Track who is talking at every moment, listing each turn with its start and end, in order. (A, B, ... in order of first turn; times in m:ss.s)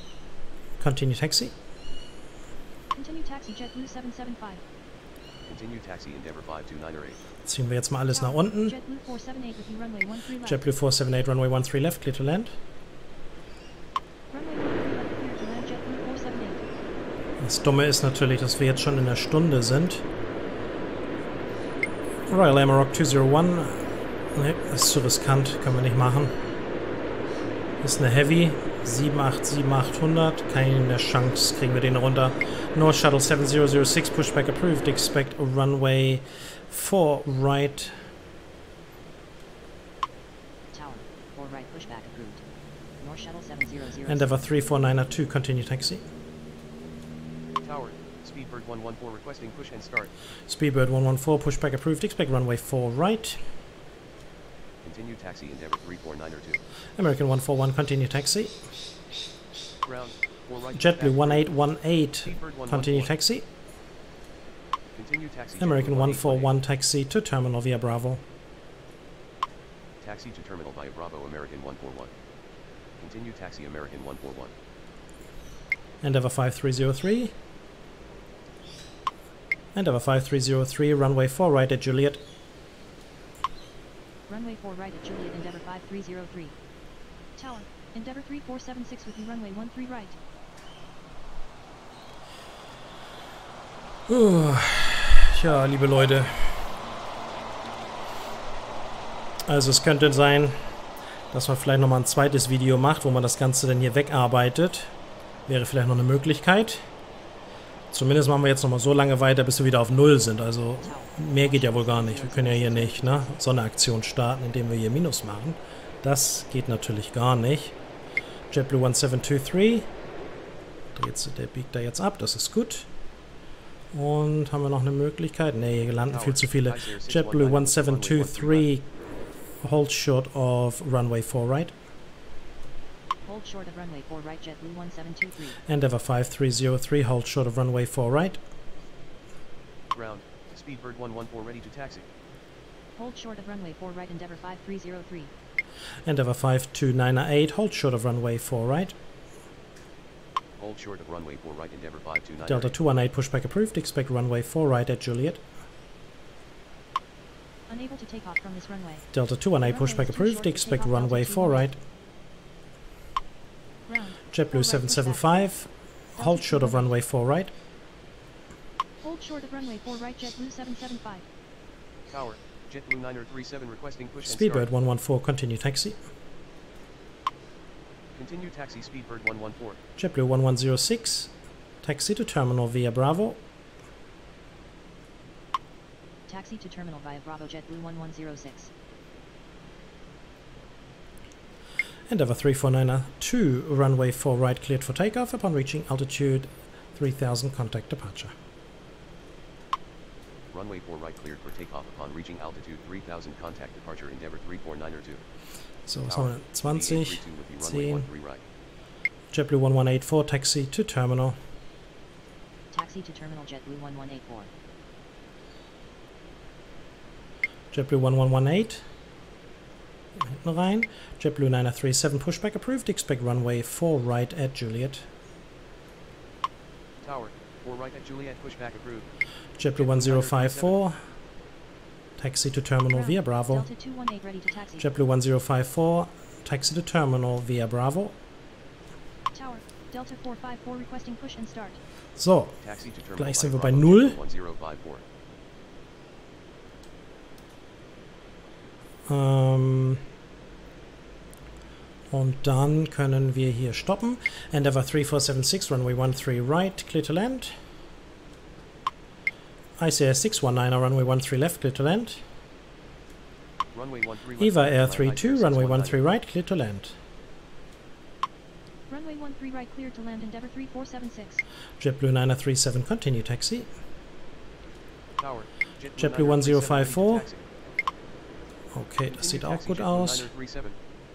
0:00.8-0:01.5 A
0:02.9-0:04.6 B
0:05.5-0:07.2 C
0:07.4-0:08.8 A
0:08.1-0:10.7 B
0:10.4-0:12.6 A
0:14.3-0:16.7 B
0:17.4-0:20.0 A
0:22.3-0:26.4 A
0:27.8-0:38.0 A
0:40.7-0:42.4 B
0:43.0-0:44.9 B
0:44.1-0:46.0 A
0:47.6-0:50.1 C
0:50.5-0:53.4 A
0:54.8-0:56.6 C
0:57.0-0:58.6 A
0:59.8-1:01.5 C
1:00.7-1:03.5 A
1:02.2-1:03.1 C
1:05.0-1:06.5 C
1:05.6-1:08.2 A
1:10.0-1:12.1 C
1:13.0-1:14.5 C
1:16.0-1:17.4 A
1:19.7-1:22.2 A
1:24.3-1:26.6 B
1:27.4-1:30.2 B
1:34.1-1:36.6 A
1:39.5-1:40.7 A
1:41.3-1:44.9 A
1:45.5-1:46.8 A
1:47.9-1:57.8 A
1:50.8-1:53.4 B
1:58.5-1:59.9 A
2:00.9-2:02.9 A
2:03.9-2:08.9 A
2:06.1-2:08.7 C
2:09.6-2:11.7 A
2:13.3-2:15.6 B
2:15.7-2:18.4 A
2:19.9-2:22.1 C
2:23.0-2:25.3 B
2:26.0-2:29.0 A
2:30.6-2:32.8 C
2:32.5-2:35.4 A
2:37.7-2:39.1 B
2:39.1-2:41.8 A
2:39.6-2:41.7 B
2:43.9-2:45.5 B
2:44.3-2:47.5 A
2:46.2-2:47.0 B
2:49.0-2:51.3 B
2:52.1-2:54.7 C
2:54.2-2:56.0 A
2:58.2-2:59.8 C
3:00.0-3:03.4 A
3:06.3-3:08.7 B
3:12.1-3:18.3 A
3:20.5-3:25.2 C
3:25.9-3:28.1 A
3:26.1-3:28.4 C
3:29.3-3:31.4 A
3:32.7-3:34.5 B
3:37.7-3:38.8 A
3:40.2-3:45.1 A
3:47.0-3:49.1 C
3:49.6-3:51.0 A
3:49.8-3:50.8 C
3:52.2-3:53.7 A
3:52.9-3:54.9 B
3:54.8-3:58.2 A
3:59.3-4:01.8 B
4:02.2-4:02.6 A
4:02.6-4:05.0 C
4:03.2-4:04.2 A
4:09.1-4:10.0 A
4:12.1-4:17.6 A
4:19.8-4:22.2 A
4:23.8-4:26.1 C
4:24.4-4:27.0 A
4:28.9-4:31.4 B
4:31.8-4:33.7 A
4:35.2-4:37.4 C
4:36.0-4:37.3 A
4:38.7-4:40.3 A
4:39.1-4:40.8 C